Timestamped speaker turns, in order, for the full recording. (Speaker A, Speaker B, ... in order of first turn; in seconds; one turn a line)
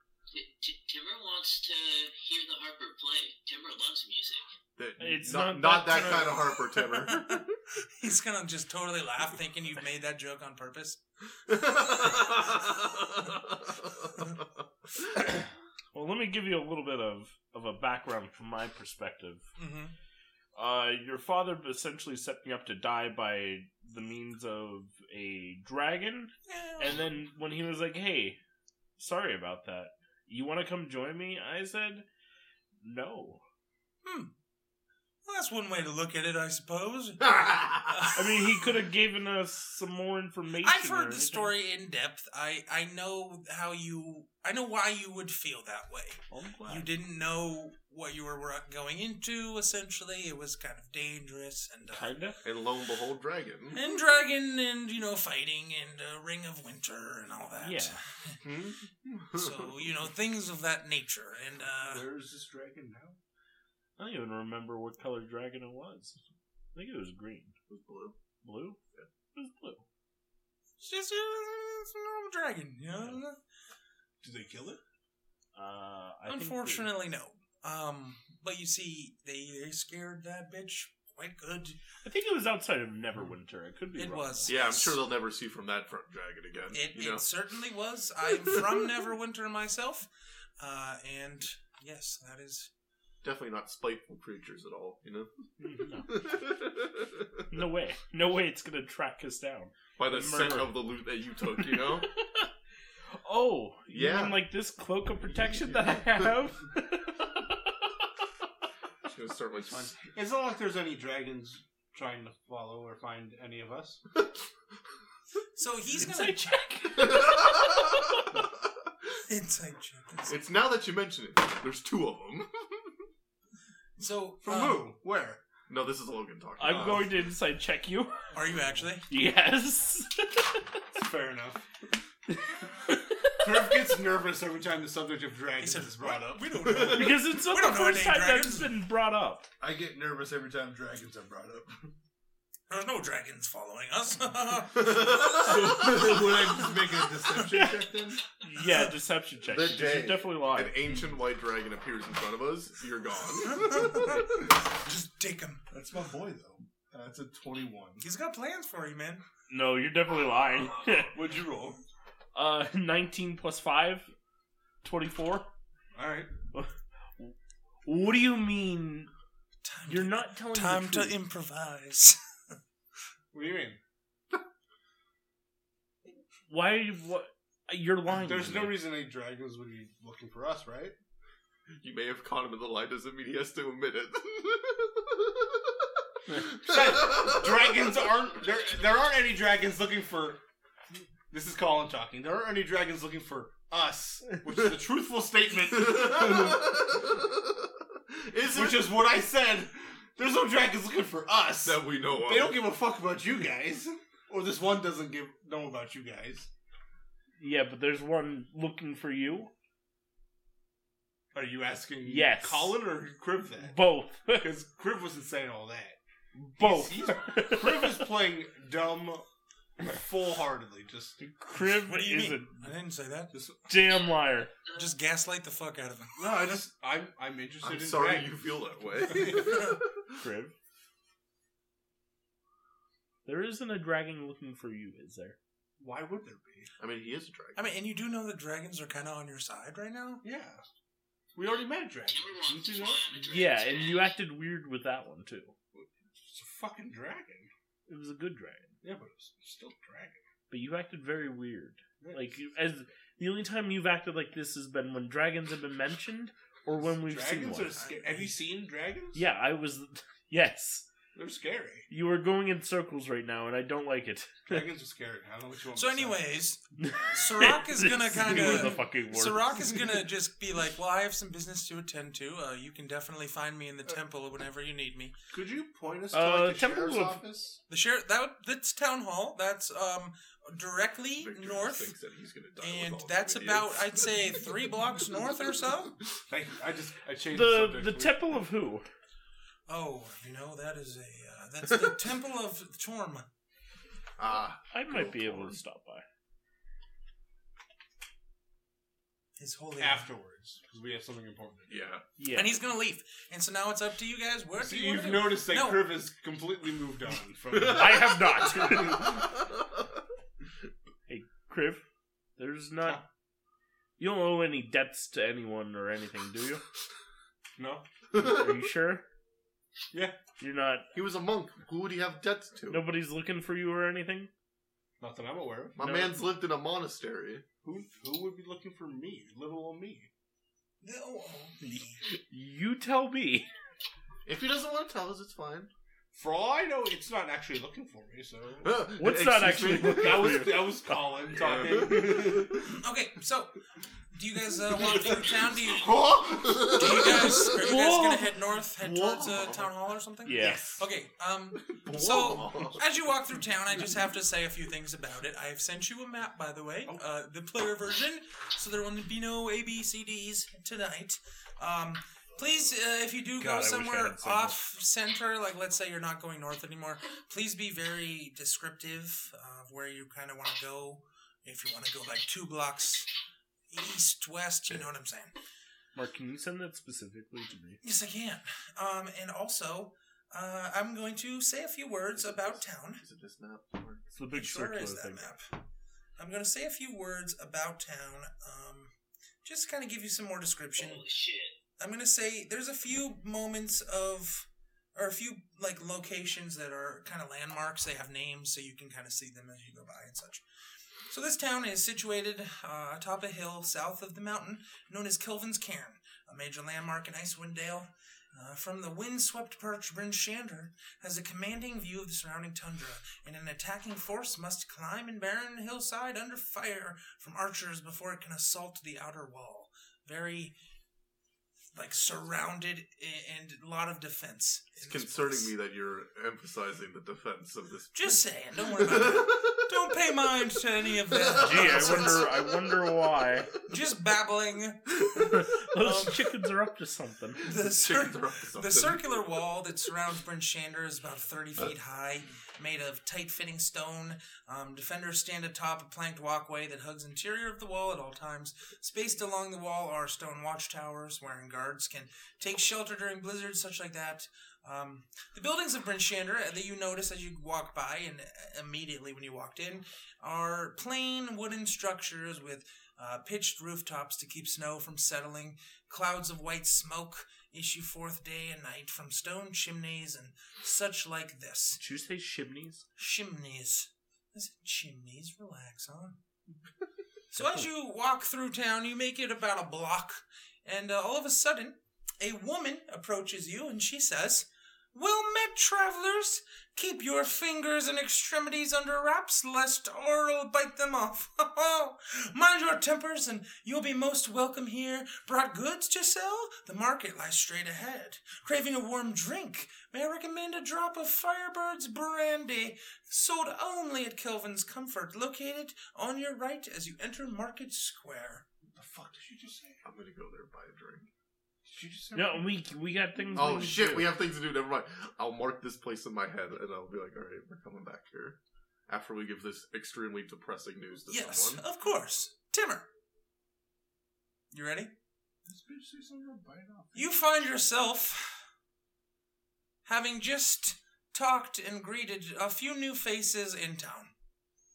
Speaker A: 0.3-4.5
Speaker B: 4.8-7.4
Speaker C: 5.0-6.5
Speaker D: 7.0-12.3
Speaker B: 11.5-14.4
Speaker C: 15.9-19.4
Speaker D: 19.6-19.9
Speaker C: 20.5-28.4
Speaker D: 26.5-27.0
Speaker C: 29.0-32.0
Speaker C: 32.8-33.4
Speaker D: 34.0-34.3
Speaker D: 35.2-38.2
Speaker B: 37.3-38.0
Speaker C: 38.1-41.5
Speaker D: 40.6-52.1
Speaker C: 46.3-46.9
Speaker C: 51.9-52.4
Speaker B: 52.4-53.8
Speaker D: 53.7-58.4
Speaker C: 57.6-58.0
Speaker B: 58.4-59.9
Speaker D: 59.3-62.0
Speaker E: 61.9-63.2
Speaker C: 64.0-66.2
Speaker C: 66.7-67.5
Speaker B: 67.7-68.2
Speaker C: 68.4-68.8
Speaker C: 69.3-69.8
Speaker D: 70.8-73.4
Speaker E: 74.2-74.8
Speaker C: 75.5-76.9
Speaker D: 76.3-81.8
Speaker C: 82.0-84.5
Speaker D: 84.0-85.0
Speaker B: 84.5-87.3
Speaker D: 86.7-90.1
Speaker D: 90.6-92.7
Speaker B: 93.2-95.3
Speaker C: 95.6-96.4
Speaker B: 96.1-97.4
Speaker C: 97.5-100.8
Speaker B: 100.0-102.1
Speaker C: 101.6-102.5
Speaker C: 103.1-107.5
Speaker B: 103.9-104.5
Speaker B: 109.0-110.0
Speaker E: 110.0-114.0
Speaker D: 115.5-116.9
Speaker C: 116.0-117.5
Speaker B: 117.0-118.4
Speaker D: 119.3-120.4
Speaker B: 120.3-123.0
Speaker D: 124.0-124.9
Speaker E: 124.4-125.4
Speaker B: 125.7-127.1
Speaker C: 126.6-128.3
Speaker E: 126.7-127.0
Speaker D: 128.3-129.1
Speaker C: 129.1-130.6
Speaker E: 130.9-131.6
Speaker E: 133.4-136.8
Speaker D: 135.6-138.7
Speaker B: 136.7-137.0
Speaker C: 136.7-139.5
Speaker E: 139.6-141.8
Speaker D: 142.7-145.2
Speaker B: 144.7-146.3
Speaker E: 145.3-148.2
Speaker C: 148.4-151.0
Speaker B: 149.4-154.2
Speaker D: 153.4-155.6
Speaker E: 155.7-158.0
Speaker D: 158.0-159.2
Speaker C: 159.5-161.1
Speaker E: 161.1-161.8
Speaker C: 162.3-164.1
Speaker C: 164.8-165.5
Speaker E: 165.9-166.3
Speaker C: 166.5-169.1
Speaker D: 169.6-172.2
Speaker C: 169.9-171.2
Speaker E: 173.3-173.8
Speaker C: 176.5-178.9
Speaker E: 178.1-180.9
Speaker B: 181.8-185.9
Speaker B: 186.5-187.8
Speaker E: 186.6-190.4
Speaker E: 191.3-196.8
Speaker B: 195.7-199.0
Speaker E: 198.5-206.5
Speaker B: 201.6-202.6
Speaker C: 207.4-209.5
Speaker E: 211.3-213.8
Speaker C: 212.0-212.8
Speaker C: 213.6-214.5
Speaker E: 214.4-216.0
Speaker C: 216.3-218.1
Speaker E: 216.6-219.2
Speaker E: 219.8-221.2
Speaker C: 221.2-222.5
Speaker D: 221.5-223.3
Speaker C: 223.7-224.5
Speaker A: 224.6-224.9
Speaker D: 224.7-226.1
Speaker E: 226.2-228.4
Speaker B: 227.6-230.1
Speaker E: 229.1-229.5
Speaker C: 230.2-230.5
Speaker C: 233.2-235.4
Speaker E: 235.8-236.7
Speaker B: 236.8-237.7
Speaker D: 237.6-240.2
Speaker E: 240.2-240.6
Speaker E: 241.3-243.2
Speaker A: 241.4-244.1
Speaker C: 243.3-245.5
Speaker E: 246.2-247.5
Speaker C: 247.9-248.8
Speaker E: 248.8-250.2
Speaker C: 250.5-257.8
Speaker E: 252.0-252.4
Speaker E: 256.8-259.2
Speaker C: 259.1-260.9
Speaker E: 261.1-261.9
Speaker C: 261.9-264.7
Speaker E: 264.5-266.2
Speaker D: 265.7-266.6
Speaker C: 266.8-269.8
Speaker D: 267.1-275.1
Speaker E: 275.3-277.6
Speaker C: 276.1-277.2
Speaker D: 277.7-281.9
Speaker B: 281.2-284.1
Speaker D: 282.6-285.9
Speaker E: 286.3-288.2
Speaker C: 287.3-288.9
Speaker D: 289.7-293.2
Speaker B: 294.2-295.6
Speaker C: 294.7-296.0
Speaker D: 299.4-300.1
Speaker E: 299.8-301.7
Speaker B: 301.7-302.0
Speaker C: 302.2-302.6
Speaker D: 302.3-305.9
Speaker E: 304.6-309.2
Speaker C: 307.6-309.2
Speaker C: 311.1-311.8
Speaker C: 312.4-313.0
Speaker C: 314.0-316.6
Speaker E: 317.6-317.9
Speaker C: 318.1-319.0
Speaker E: 319.9-320.2
Speaker C: 320.4-320.9
Speaker B: 320.9-322.8
Speaker C: 322.7-324.3
Speaker E: 325.0-325.8
Speaker B: 325.8-327.4
Speaker C: 325.8-326.2
Speaker E: 327.6-330.1
Speaker D: 330.8-332.0
Speaker C: 332.3-333.5
Speaker B: 334.2-335.7
Speaker E: 336.1-338.9
Speaker B: 338.6-340.4
Speaker C: 339.0-341.1
Speaker E: 339.5-342.7
Speaker B: 341.4-342.4
Speaker D: 342.7-343.5
Speaker D: 344.1-346.0
Speaker E: 344.7-347.1
Speaker A: 345.0-345.6
Speaker B: 346.2-347.7
Speaker D: 346.6-373.1
Speaker C: 347.3-348.3
Speaker B: 348.8-349.7
Speaker C: 350.2-350.8
Speaker E: 350.4-350.7
Speaker B: 351.7-352.9
Speaker C: 363.4-364.5
Speaker D: 373.7-375.3
Speaker C: 375.9-377.8
Speaker D: 377.8-383.0
Speaker B: 382.1-384.1
Speaker C: 384.1-385.2
Speaker D: 384.3-385.5
Speaker D: 386.2-388.9
Speaker D: 389.4-391.0
Speaker A: 390.8-391.6
Speaker D: 391.8-400.4
Speaker D: 401.1-420.5
Speaker D: 421.7-425.5
Speaker B: 424.8-429.5
Speaker D: 427.9-432.2
Speaker B: 431.1-432.6
Speaker C: 431.4-433.5
Speaker D: 433.6-436.2
Speaker C: 435.1-437.4
Speaker D: 437.4-471.8
Speaker B: 437.5-439.2
Speaker C: 471.8-472.9
Speaker D: 473.0-476.2
Speaker D: 477.3-508.4
Speaker E: 508.7-509.8
Speaker B: 509.8-511.1
Speaker E: 511.7-512.5
Speaker C: 512.1-514.1
Speaker B: 513.3-521.6
Speaker D: 521.1-522.9
Speaker D: 524.5-524.9
Speaker E: 525.5-527.3
Speaker D: 526.9-528.4
Speaker D: 529.8-534.1